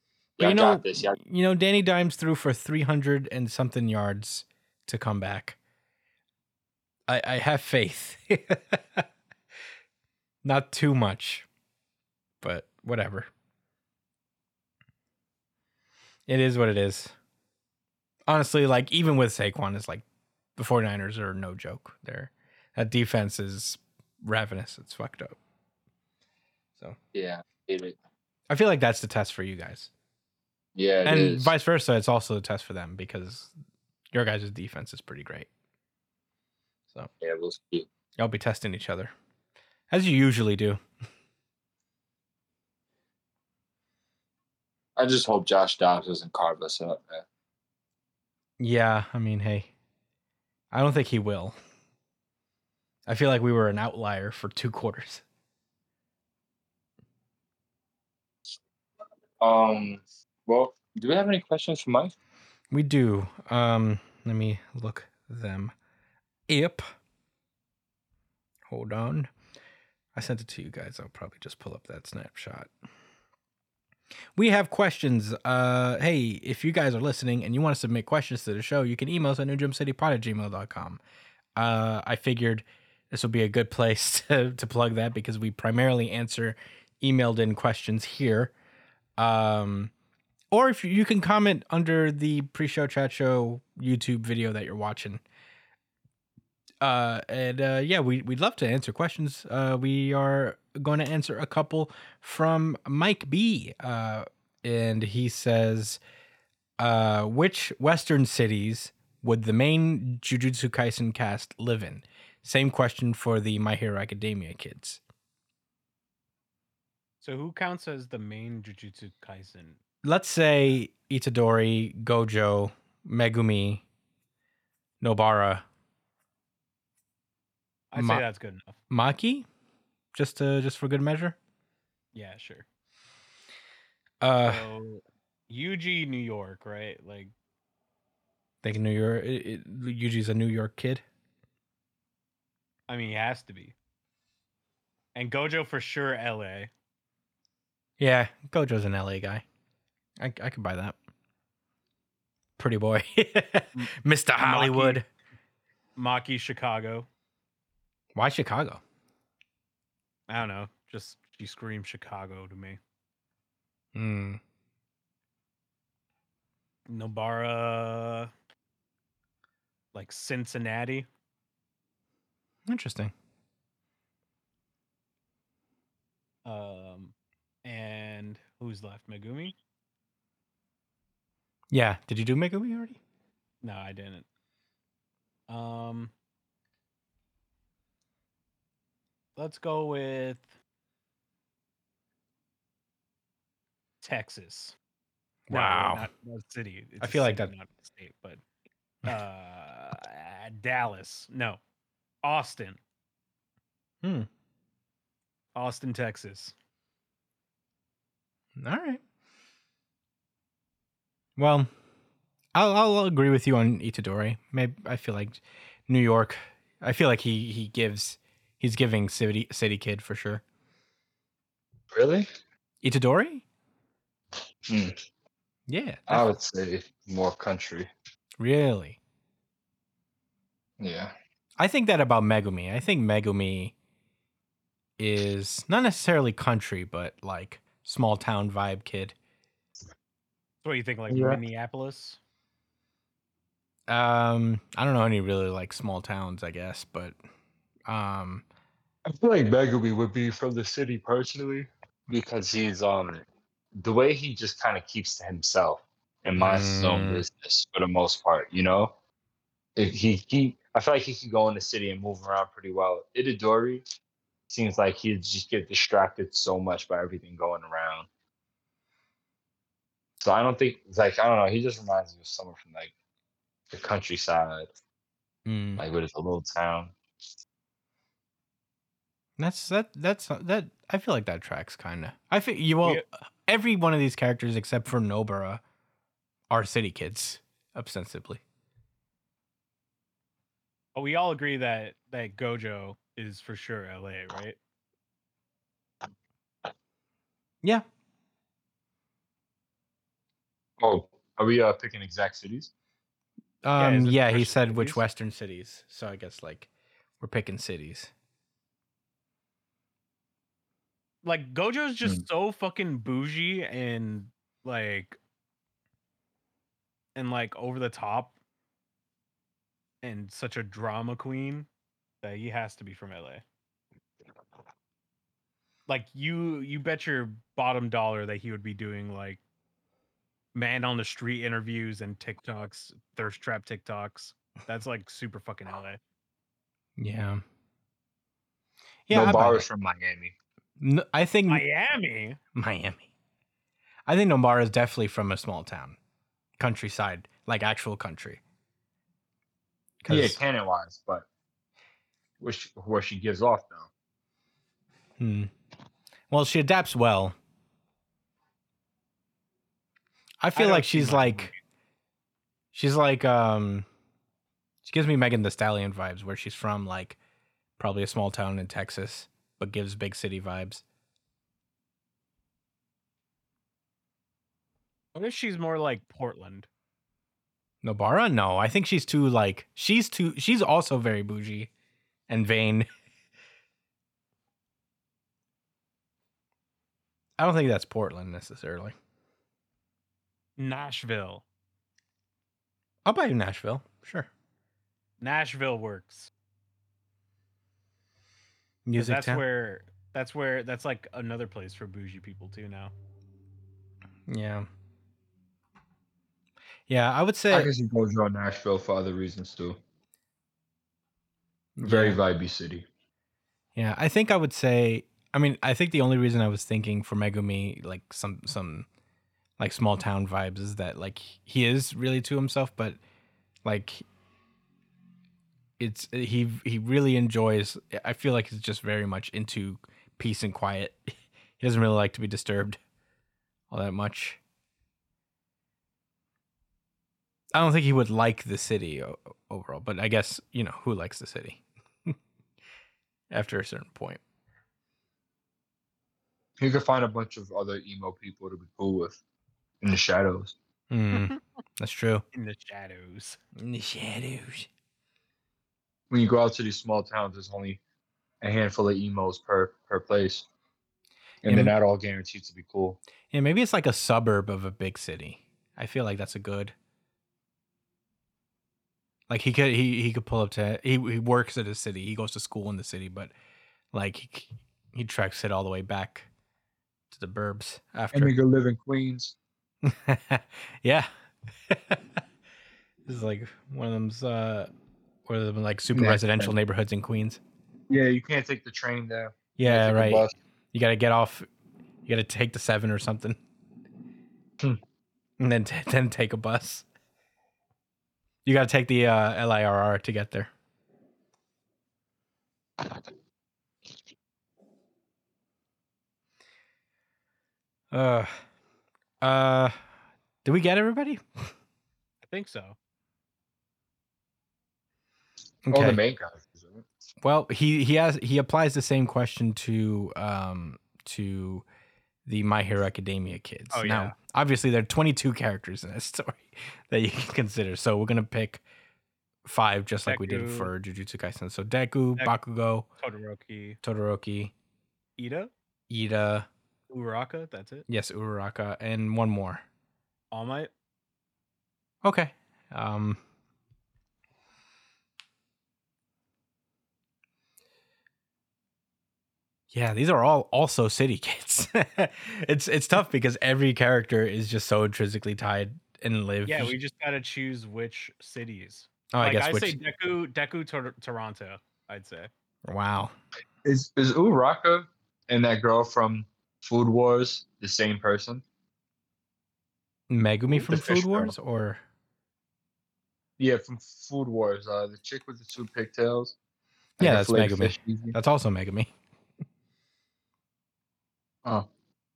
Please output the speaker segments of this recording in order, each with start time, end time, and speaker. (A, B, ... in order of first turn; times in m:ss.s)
0:00.4-0:01.2 A
0:00.4-0:05.6 B
0:07.1-0:09.0 B
0:10.4-0:11.5 B
0:12.4-0:13.3 B
0:16.3-0:17.1 B
0:18.3-0:20.0 B
0:20.6-0:25.4 B
0:27.1-0:28.0 A
0:28.5-0:29.9 B
0:30.8-0:31.5 A
0:31.0-0:33.5 B
0:34.1-0:35.5 B
0:37.2-0:37.9 A
0:38.2-0:39.1 B
0:39.9-0:40.8 B
0:45.0-0:47.2 A
0:48.6-0:49.7 B
0:50.7-0:51.6 B
0:53.0-0:55.2 B
0:59.4-1:02.1 A
1:02.7-1:05.7 B
1:06.5-1:06.8 B
1:08.7-1:09.3 B
1:10.2-1:12.7 B
1:14.3-1:21.0 B
1:21.6-1:28.5 B
1:29.2-1:29.9 B
1:30.5-1:35.2 B
1:36.8-1:46.0 B
1:46.8-1:55.0 B
1:57.2-1:59.8 C
2:00.0-2:03.8 B
2:05.0-2:05.6 B
2:07.9-2:08.8 C
2:08.0-2:08.2 B
2:08.9-2:09.4 B
2:10.1-2:11.4 B
2:12.1-2:12.6 C
2:14.2-2:14.7 B
2:14.4-2:17.3 C
2:18.6-2:21.0 B
2:22.9-2:23.7 C
2:25.1-2:26.7 C
2:28.0-2:29.4 B
2:30.2-2:31.0 B
2:32.6-2:35.0 B
2:33.8-2:35.0 C
2:36.0-2:37.1 C
2:38.1-2:38.8 B
2:40.3-2:42.8 C
2:43.9-2:44.4 B
2:46.9-2:48.3 C
2:49.9-2:51.1 C
2:52.7-2:53.1 B
2:56.4-2:57.1 C
2:57.6-2:59.5 C
3:01.7-3:03.0 B
3:03.6-3:04.2 C
3:05.5-3:06.1 C
3:09.4-3:10.5 C
3:14.0-3:14.8 C
3:15.5-3:16.1 B
3:15.5-3:18.4 C
3:17.0-3:17.5 B
3:19.0-3:21.6 C
3:22.2-3:22.8 C
3:24.0-3:24.3 B
3:25.5-3:26.5 C
3:28.6-3:29.0 B
3:31.4-3:31.7 B
3:32.5-3:40.4 B
3:41.9-3:42.3 A
3:42.8-3:43.4 B
3:44.7-3:45.0 A
3:45.7-3:46.2 B
3:46.1-3:47.9 A
3:48.4-3:49.0 B
3:50.8-3:51.1 A
3:51.6-3:53.7 B
3:55.0-3:59.1 B
4:00.6-4:02.2 C
4:01.1-4:01.4 A
4:03.9-4:07.2 B
4:07.9-4:08.4 B
4:09.1-4:18.9 A
4:16.4-4:17.2 B
4:19.8-4:23.8 A
4:24.5-4:28.1 A
4:30.2-4:32.9 A
4:33.7-4:34.7 A
4:35.4-4:35.8 B
4:35.8-4:36.9 A
4:39.4-4:45.6 B
4:46.5-4:48.4 B
4:50.9-4:54.6 C
5:00.8-5:02.7 A
5:03.6-5:06.7 B
5:03.8-5:05.0 C
5:07.2-5:08.1 B
5:11.2-5:15.2 C
5:17.2-5:18.4 C
5:20.0-5:21.7 C
5:22.2-5:23.4 C
5:25.9-5:29.4 C
5:30.5-5:36.0 C
5:37.0-5:37.4 B
5:39.1-5:39.6 B
5:39.1-5:40.3 A
5:40.8-5:41.6 B
5:41.5-5:42.4 C
5:42.6-5:43.0 B
5:44.1-5:46.0 B
5:46.6-5:48.4 B
5:50.0-5:50.4 B
5:50.1-5:51.2 A
5:52.4-5:53.9 A
5:55.2-5:55.5 B
5:56.3-5:57.4 B
6:00.4-6:01.5 B
6:00.5-6:01.6 C
6:02.7-6:03.8 B
6:04.8-6:07.2 B
6:07.8-6:10.8 B
6:15.1-6:16.7 C
6:17.8-6:21.7 B
6:22.3-6:22.9 B
6:27.4-6:28.9 B
6:30.6-6:31.4 C
6:33.0-6:34.3 B
6:35.2-6:36.3 C
6:38.8-6:39.4 B
6:39.0-6:42.9 C
6:44.3-6:44.7 B
6:46.9-6:47.7 B
6:47.5-6:49.8 A
6:51.8-6:52.2 B
6:51.8-6:52.8 A
6:53.8-6:58.9 B
6:59.6-7:03.0 B
7:03.6-7:04.0 B
7:05.8-7:12.8 B
7:13.7-7:14.4 B
7:17.5-7:22.2 B
7:23.3-7:24.2 B
7:26.6-7:29.2 A
7:29.8-7:30.6 A
7:30.9-7:32.2 B
7:31.1-7:31.4 C
7:32.3-7:33.4 C
7:33.6-7:34.7 B
7:36.1-7:37.8 A
7:38.4-7:40.4 A
7:41.4-7:43.0 A
7:41.5-7:41.7 B
7:43.3-7:46.7 B
7:49.3-7:53.3 B
7:53.9-7:56.3 B
7:57.1-7:58.3 B
7:58.1-7:59.3 A
7:59.8-8:01.1 B
8:01.7-8:02.2 B
8:03.0-8:04.7 B
8:05.3-8:07.4 B
8:05.9-8:06.5 A
8:07.9-8:10.3 A
8:09.6-8:11.5 B
8:12.0-8:13.4 B
8:15.4-8:16.8 B
8:18.4-8:20.5 B
8:27.9-8:28.3 B
8:29.2-8:29.7 B
8:30.4-8:31.5 B
8:32.2-8:32.8 C
8:35.6-8:36.0 B
8:35.7-8:36.8 A
8:37.2-8:41.6 B
8:42.2-8:48.6 B
8:43.7-8:44.1 C
8:49.4-8:52.8 B
8:50.1-8:50.7 C
8:53.0-8:53.8 C
8:53.8-8:54.5 B
8:55.2-8:55.5 C
8:55.9-8:56.5 B
8:56.9-8:57.8 C
8:57.9-8:59.6 B
9:00.3-9:00.7 C
9:02.0-9:03.2 B
9:09.7-9:16.7 B
9:16.4-9:22.3 C
9:19.1-9:19.8 B
9:22.6-9:23.1 B
9:23.6-9:28.4 A
9:30.1-9:31.8 B
9:30.5-9:31.3 A
9:33.4-9:36.3 A
9:37.0-9:38.2 A
9:37.0-9:38.9 B